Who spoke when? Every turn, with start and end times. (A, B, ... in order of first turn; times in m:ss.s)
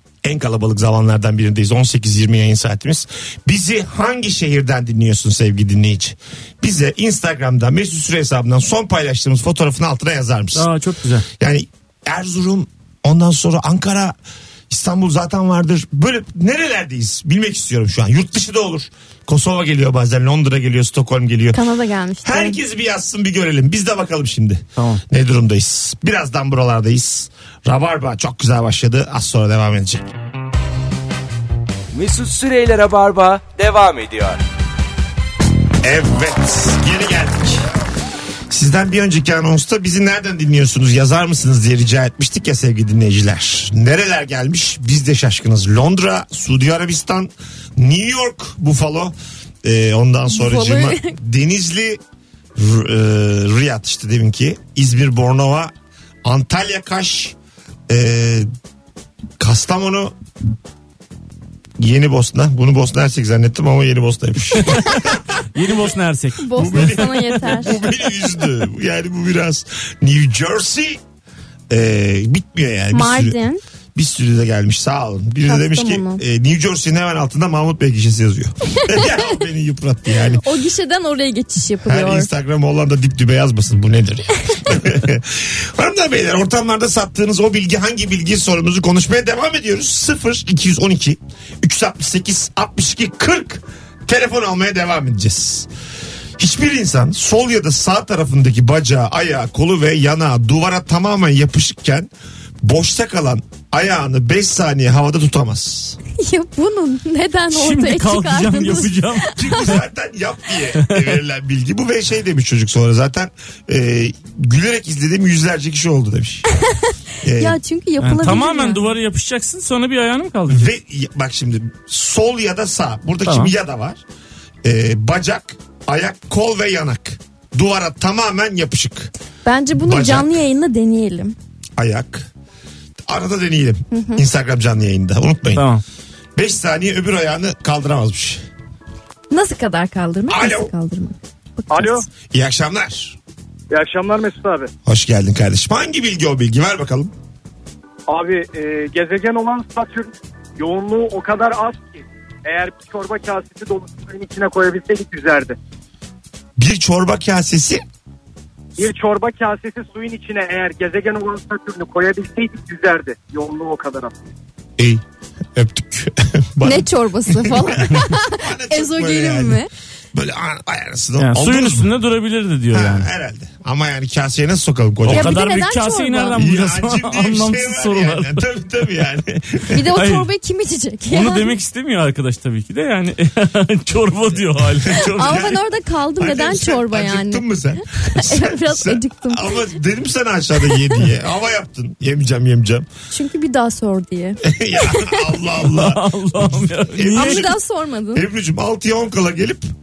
0:00.2-0:10.7 A
0:10.6-0:11.3 B
0:11.4-0:14.2 A
0:14.7-0:21.6 A
0:21.5-0:22.6 C
0:22.2-0:30.1 A
0:24.8-0:25.0 B
0:31.9-0:34.4 D
0:35.8-0:37.7 A
0:38.5-0:52.0 A
0:50.3-0:51.2 C
0:52.6-0:55.7 A
0:56.2-0:57.4 A
0:57.9-0:58.5 A
0:59.4-1:00.2 A
1:01.8-1:05.4 A
1:05.5-1:07.0 B
1:06.4-1:07.8 C
1:06.5-1:11.0 A
1:11.7-1:13.4 A
1:12.9-1:13.6 C
1:14.0-1:20.4 A
1:15.5-1:16.2 C
1:20.4-1:22.3 C
1:21.8-1:35.7 A
1:36.4-1:42.1 A
1:42.6-1:46.0 A
1:46.2-1:49.5 C
1:47.5-1:49.8 B
1:49.4-1:56.4 A
1:57.2-1:57.6 A
1:57.4-1:58.8 C
1:58.0-2:00.7 B
2:00.5-2:04.0 A
2:03.3-2:03.5 B
2:04.6-2:09.1 A
2:09.4-2:11.4 C
2:09.8-2:10.4 A
2:11.8-2:12.3 A
2:13.1-2:15.7 A
2:13.9-2:14.2 C
2:15.6-2:15.8 B
2:16.4-2:18.4 A
2:19.3-2:22.0 C
2:20.3-2:20.7 A
2:21.7-2:22.0 E
2:22.3-2:23.2 A
2:23.7-2:24.7 E
2:24.8-2:27.1 A
2:28.1-2:35.6 E
2:36.6-2:37.8 A
2:38.8-2:44.2 E
2:45.6-2:51.9 A
2:46.6-2:49.7 C
2:51.2-2:53.1 B
2:52.7-2:55.4 A
2:55.0-2:58.4 B
2:55.1-2:56.4 C
2:56.4-2:59.8 A
2:59.7-3:01.5 C
3:00.0-3:00.3 B
3:01.1-3:05.5 B
3:04.8-3:05.6 A
3:05.2-3:07.5 C
3:06.2-3:12.9 A
3:08.0-3:09.7 C
3:13.1-3:15.2 C
3:14.4-3:17.6 A
3:15.6-3:17.5 B
3:17.1-3:18.2 C
3:18.1-3:19.7 A